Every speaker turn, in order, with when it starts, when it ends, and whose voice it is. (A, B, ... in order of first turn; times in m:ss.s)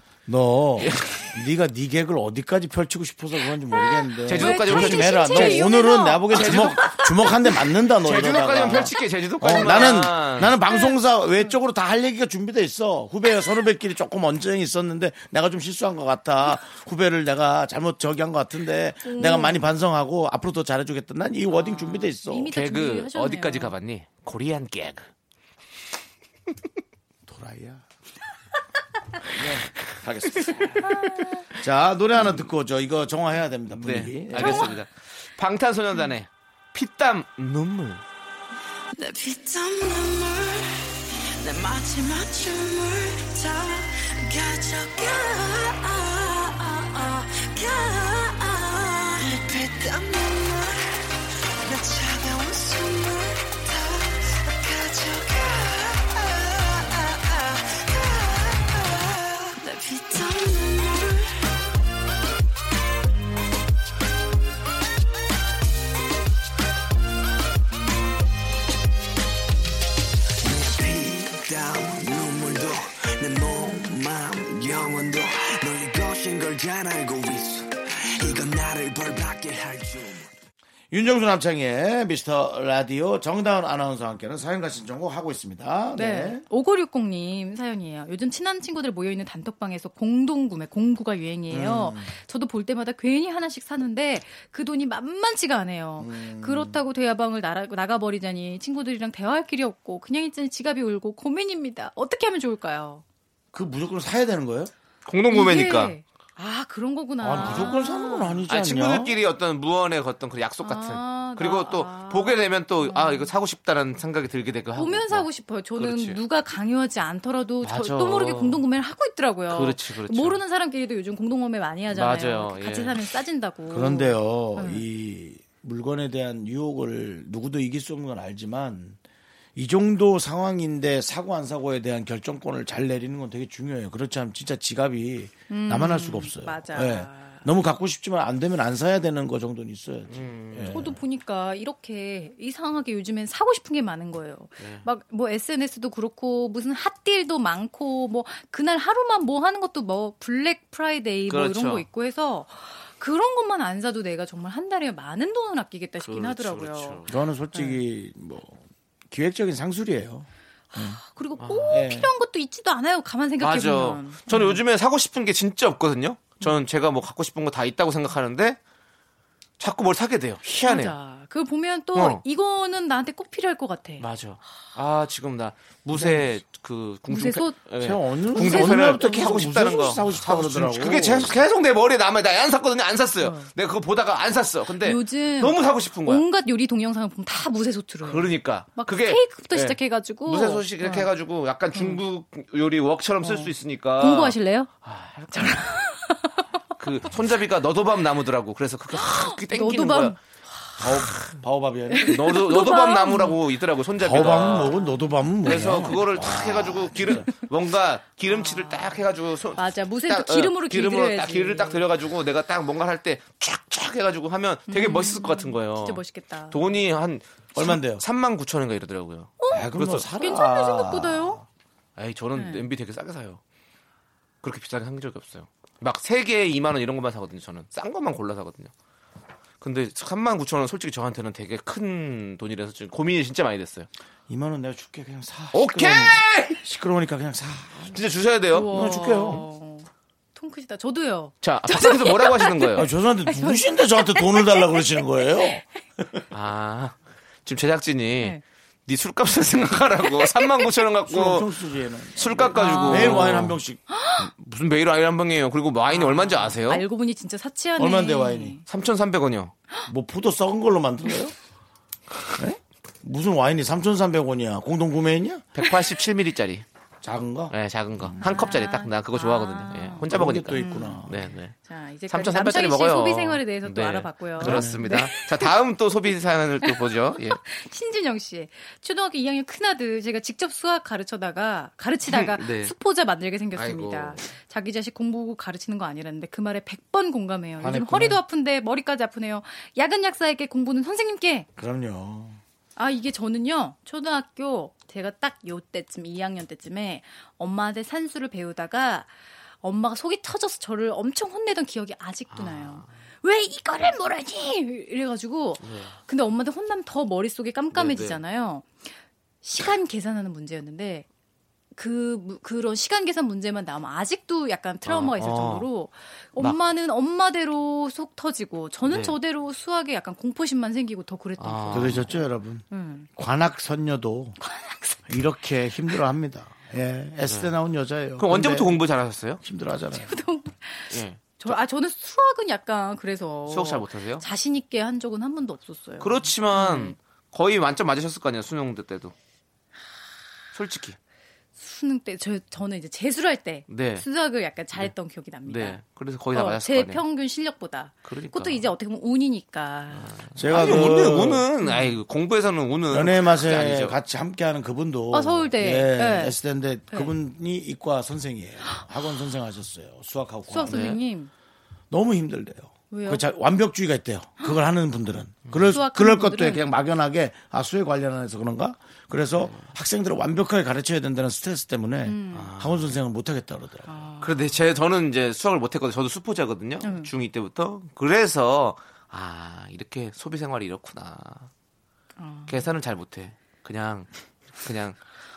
0:00.3-0:22.5 A
0:00.8-0:01.3 B
0:03.8-0:07.4 C
0:04.2-0:05.7 B
0:06.3-0:07.0 B
0:08.0-0:10.6 B
0:10.7-0:11.5 C
0:19.0-0:19.6 C
0:21.5-0:23.7 C
0:22.4-0:25.1 B
0:27.2-0:27.8 A
0:29.3-0:31.0 A
0:31.5-0:34.7 A
0:33.7-0:38.0 B
0:34.4-0:34.7 C
0:38.9-0:40.7 D
0:41.4-0:50.9 D
0:51.6-1:01.4 D
1:10.4-1:20.3 E
1:20.9-1:26.4 A
1:26.0-1:43.0 C
1:31.5-1:32.1 A
1:36.0-1:36.8 A
1:43.5-1:44.7 A
1:45.0-1:45.9 B
1:45.3-1:48.4 C
1:47.2-1:49.2 A
1:47.3-1:47.8 B
1:48.5-1:56.2 B
1:50.6-1:53.3 C
1:54.8-2:04.8 C
1:57.6-1:58.6 B
1:59.5-2:00.4 B
2:01.9-2:03.0 B
2:03.7-2:09.0 A
2:09.6-2:21.0 A
2:15.5-2:17.4 C
2:20.1-2:20.9 B
2:20.7-2:37.8 C
2:24.6-2:24.8 B
2:31.3-2:31.8 B
2:36.0-2:37.1 B
2:37.1-2:41.0 A
2:40.7-2:44.6 C
2:41.4-2:41.9 B
2:41.7-2:42.1 A
2:43.4-2:48.6 B
2:49.6-2:50.9 B
2:50.6-2:54.0 C
2:51.9-2:52.2 B
2:54.0-3:06.2 B
2:55.9-2:56.4 A
2:57.1-2:57.6 C
2:57.8-3:01.4 A
2:58.3-2:59.9 C
3:03.2-3:03.5 C
3:04.8-3:11.1 C
3:08.0-3:15.7 B
3:11.7-3:12.0 C
3:13.2-3:14.7 C
3:15.3-3:16.3 C
3:16.8-3:20.2 B
3:18.9-3:20.2 C
3:20.8-3:22.4 A
3:21.9-3:23.4 C
3:22.0-3:24.8 B
3:24.0-3:27.3 A
3:24.5-3:24.9 C
3:25.4-3:40.1 B
3:25.5-3:25.7 C
3:28.3-3:28.9 C
3:29.6-3:31.8 C
3:34.7-3:36.7 C
3:37.5-3:38.0 A
3:39.4-3:41.4 C
3:39.5-3:41.4 A
3:42.0-3:43.4 B
3:42.3-3:42.7 C
3:44.4-3:48.7 B
3:49.6-3:53.9 B
3:54.3-3:58.0 A
3:55.5-3:56.6 B
3:57.9-3:58.8 B
3:58.5-4:05.5 C
3:58.6-3:59.4 A
4:01.4-4:02.9 B
4:02.7-4:06.2 A
4:06.3-4:11.5 B
4:11.1-4:13.8 A
4:12.1-4:13.6 B
4:12.5-4:14.2 C
4:14.2-4:16.8 B
4:15.9-4:18.6 C
4:17.8-4:18.6 A
4:18.6-4:19.5 B
4:19.8-4:21.3 A
4:22.4-4:25.5 A
4:25.5-4:26.6 B
4:27.0-4:28.3 A
4:27.5-4:37.4 B
4:28.2-4:35.5 C
4:30.0-4:31.3 A
4:34.4-4:34.8 A
4:36.6-4:51.5 C
4:42.0-4:42.7 B
4:43.5-4:44.2 B
4:47.6-4:48.2 A
4:51.6-4:52.4 A
4:52.8-4:59.1 C
4:59.6-5:08.9 C
5:02.3-5:02.9 B
5:05.6-5:06.0 B
5:07.7-5:08.2 B
5:09.4-5:11.0 C
5:11.8-5:23.1 C
5:14.8-5:15.7 B
5:18.8-5:19.2 B
5:21.4-5:22.2 B
5:21.7-5:24.4 A
5:24.4-5:25.2 C
5:25.1-5:28.8 A
5:27.2-5:27.5 B
5:28.2-5:29.4 B
5:29.4-5:30.2 A
5:30.0-5:36.9 C
5:30.9-5:31.6 B
5:33.5-5:34.2 B
5:36.0-5:39.1 B
5:40.5-5:41.0 B
5:41.6-5:45.8 C
5:43.7-5:44.0 B
5:45.4-5:47.0 B
5:46.3-5:50.9 C
5:48.0-5:48.7 B
5:49.9-5:54.0 B
5:50.3-5:51.5 A
5:51.6-5:52.0 C
5:52.9-6:00.9 A
5:55.1-5:56.4 C
6:00.5-6:01.3 C
6:00.6-6:01.0 B
6:01.9-6:14.0 A
6:02.9-6:03.2 C
6:05.5-6:05.7 B
6:05.7-6:06.6 C
6:09.4-6:09.7 B
6:12.0-6:12.5 C
6:12.3-6:13.0 B
6:13.9-6:14.4 C
6:14.2-6:21.5 B
6:16.8-6:17.1 C
6:22.2-6:22.6 C
6:22.5-6:24.1 B
6:24.6-6:25.0 B